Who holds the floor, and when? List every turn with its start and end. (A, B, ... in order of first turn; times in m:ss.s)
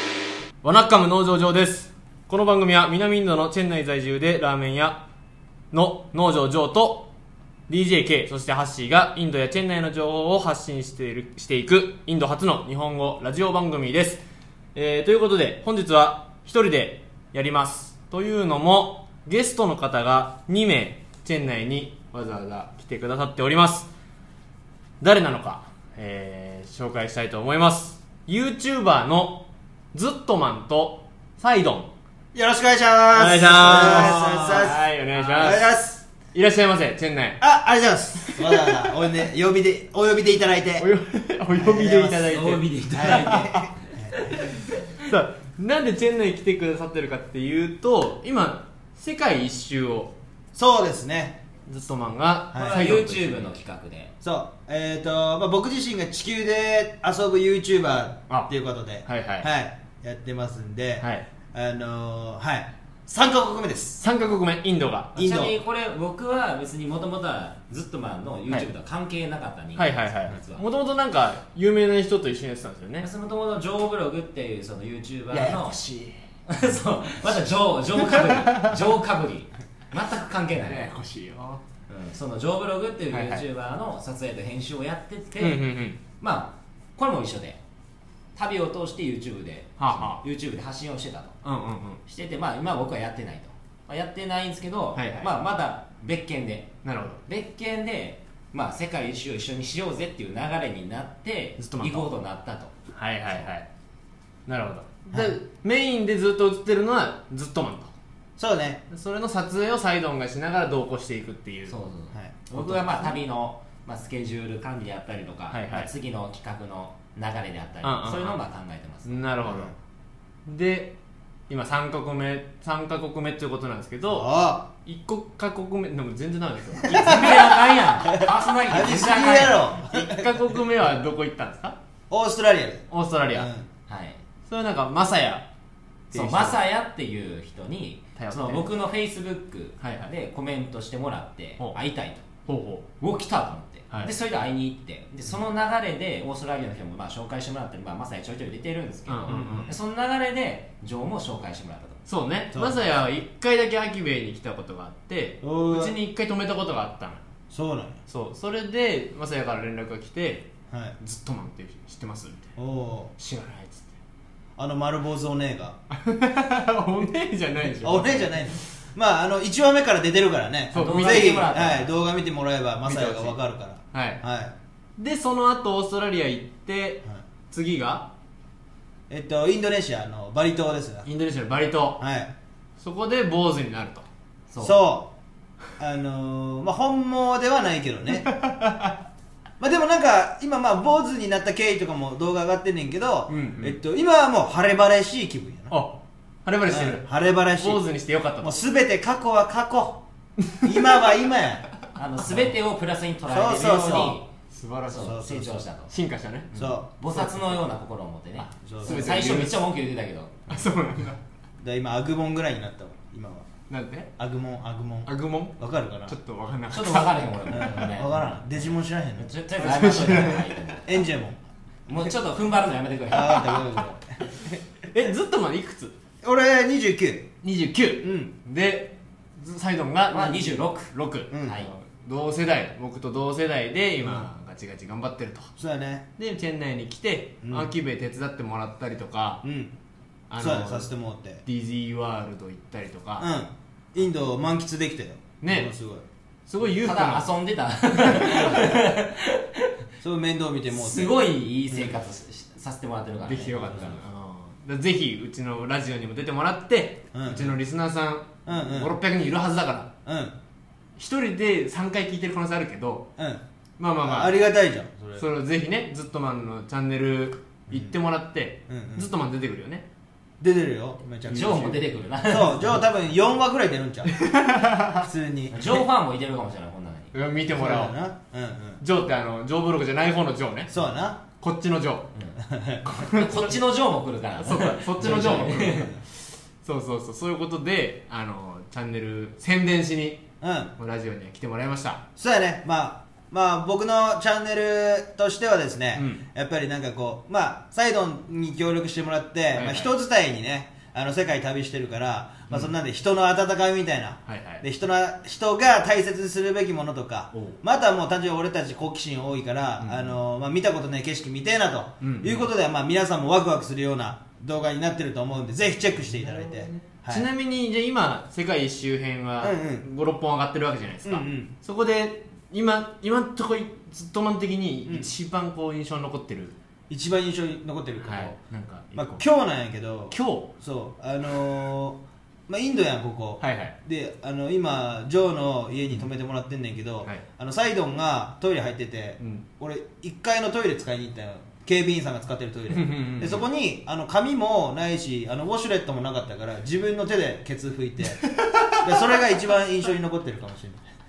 0:00.6-0:05.0 A
0:05.7-0:07.1 A
0:07.7-0:14.2 A
0:14.7-0:23.9 A
0:25.0-0:31.9 A
0:32.3-0:34.8 B
0:33.1-0:37.4 A
0:34.1-0:35.6 C
0:35.4-0:36.0 B
0:37.4-0:40.9 B
0:38.2-0:38.8 A
0:40.8-0:43.4 A
0:41.5-0:42.4 B
0:42.2-0:44.4 C
0:42.9-0:44.2 B
0:44.3-0:50.1 A
0:50.5-0:51.4 B
0:51.7-0:53.5 A
0:52.5-0:54.1 C
0:54.2-1:04.0 B
0:59.0-0:59.5 A
1:01.0-1:01.2 A
1:04.0-1:05.2 A
1:05.2-1:05.5 B
1:05.2-1:10.6 C
1:09.8-1:13.1 A
1:13.0-1:15.8 C
1:15.3-1:16.2 A
1:16.5-1:20.9 C
1:18.0-1:18.7 A
1:20.6-1:21.6 A
1:21.9-1:27.6 C
1:23.1-1:23.4 A
1:25.4-1:26.0 A
1:28.3-1:31.4 C
1:29.8-1:30.2 A
1:31.4-1:32.0 A
1:32.0-1:36.7 C
1:34.9-1:35.3 A
1:36.8-1:37.2 A
1:37.2-1:42.7 C
1:41.6-1:42.1 A
1:42.9-1:43.7 A
1:44.5-1:47.9 A
1:45.1-1:45.4 B
1:48.4-1:48.8 B
1:48.9-1:51.7 A
1:51.7-1:59.2 C
1:52.1-1:52.4 B
1:52.5-1:53.2 A
1:55.5-1:55.9 A
1:57.8-1:58.4 A
1:59.0-1:59.7 A
1:59.5-1:59.7 B
2:00.4-2:01.0 A
2:01.5-2:04.3 A
2:04.1-2:04.7 B
2:04.8-2:07.5 A
2:06.8-2:09.6 C
2:07.0-2:07.5 B
2:08.1-2:10.3 B
2:09.9-2:11.8 A
2:12.1-2:13.7 B
2:12.9-2:13.5 A
2:13.9-2:14.2 C
2:14.5-2:15.4 A
2:16.1-2:16.6 A
2:16.1-2:22.3 C
2:18.2-2:18.7 A
2:19.8-2:20.1 A
2:22.4-2:22.9 A
2:23.0-2:32.0 C
2:29.1-2:29.8 A
2:29.3-2:29.7 B
2:32.1-2:37.2 A
2:32.5-2:32.8 B
2:35.4-2:36.0 B
2:37.5-2:38.0 B
2:38.1-2:42.5 A
2:40.7-2:41.0 B
2:42.6-2:43.1 B
2:43.2-2:43.9 A
2:44.6-2:45.8 B
2:45.9-2:48.7 A
2:47.8-2:54.5 B
2:50.7-2:51.5 A
2:50.7-2:51.9 C
2:52.8-2:53.4 A
2:53.9-2:54.2 A
2:55.0-2:58.1 A
2:59.1-3:01.1 B
3:01.0-3:02.0 A
3:02.0-3:02.3 B
3:02.8-3:04.1 A
3:04.5-3:04.8 C
3:04.6-3:05.1 B
3:05.8-3:08.3 B
3:08.2-3:08.9 A
3:09.6-3:15.8 B
3:13.3-3:13.8 A
3:15.7-3:18.5 A
3:16.7-3:17.8 B
3:18.4-3:20.0 B
3:20.6-3:21.6 B
3:22.0-3:24.3 C
3:23.3-3:24.2 B
3:23.9-3:25.3 A
3:24.8-3:25.9 C
3:25.0-3:25.6 B
3:25.8-3:27.6 A
3:26.5-3:26.9 B
3:27.0-3:30.6 C
3:28.4-3:29.7 A
3:28.6-3:29.5 B
3:30.5-3:31.2 A
3:31.6-3:33.5 B
3:33.7-3:34.1 A
3:34.2-3:36.2 B
3:35.0-3:37.8 A
3:36.7-3:41.0 C
3:37.5-3:39.3 B
3:39.6-3:40.4 A
3:40.8-3:41.4 B
3:41.9-3:43.6 C
3:43.1-3:44.6 B
3:44.8-3:45.9 A
3:46.2-3:47.3 B
3:47.4-3:55.5 A
3:48.0-3:48.3 B
3:50.1-3:50.9 C
3:51.3-3:51.6 B
3:51.4-3:51.7 C
3:54.0-3:54.3 B
3:55.6-3:56.0 B
3:56.2-3:59.4 A
3:57.4-3:57.7 B
3:59.4-3:59.7 B
4:00.3-4:00.9 A
4:00.4-4:01.4 B
4:01.4-4:03.3 A
4:03.2-4:06.0 B
4:05.4-4:05.7 A
4:06.5-4:07.3 A
4:06.7-4:09.6 C
4:08.1-4:08.8 B
4:10.0-4:11.2 B
4:10.7-4:14.0 C
4:11.7-4:11.9 B
4:13.2-4:19.9 A
4:17.1-4:17.6 B
4:18.4-4:18.9 B
4:20.0-4:20.4 B
4:21.0-4:23.1 A
4:23.2-4:23.4 B
4:23.8-4:24.4 A
4:24.0-4:25.2 B
4:25.2-4:29.8 A
4:27.7-4:27.9 B
4:28.7-4:29.1 B
4:30.4-4:34.1 B
4:31.3-4:32.8 C
4:34.1-4:35.1 A
4:35.0-4:35.7 B
4:35.5-4:37.1 C
4:37.1-4:38.0 A
4:37.5-4:38.8 B
4:38.8-4:40.7 A
4:40.7-4:41.2 B
4:41.4-4:42.1 A
4:42.4-4:42.8 B
4:42.8-4:43.6 A
4:43.0-4:45.9 C
4:44.4-4:45.9 A
4:45.0-4:46.0 B
4:46.6-4:50.2 A
4:50.4-4:50.7 B
4:50.8-4:52.0 A
4:52.2-5:17.3 B
4:55.9-4:56.2 A
4:59.5-4:59.9 A
5:04.2-5:04.6 A
5:09.8-5:10.2 A
5:12.0-5:12.5 A
5:16.0-5:26.5 A
5:19.4-5:19.9 B
5:21.0-5:21.5 B
5:26.9-5:28.4 B
5:28.0-5:29.2 A
5:28.9-5:50.8 B
5:30.1-5:30.5 A
5:33.4-5:33.7 A
5:39.2-5:39.4 A
5:42.7-5:43.4 A
5:48.2-5:49.2 A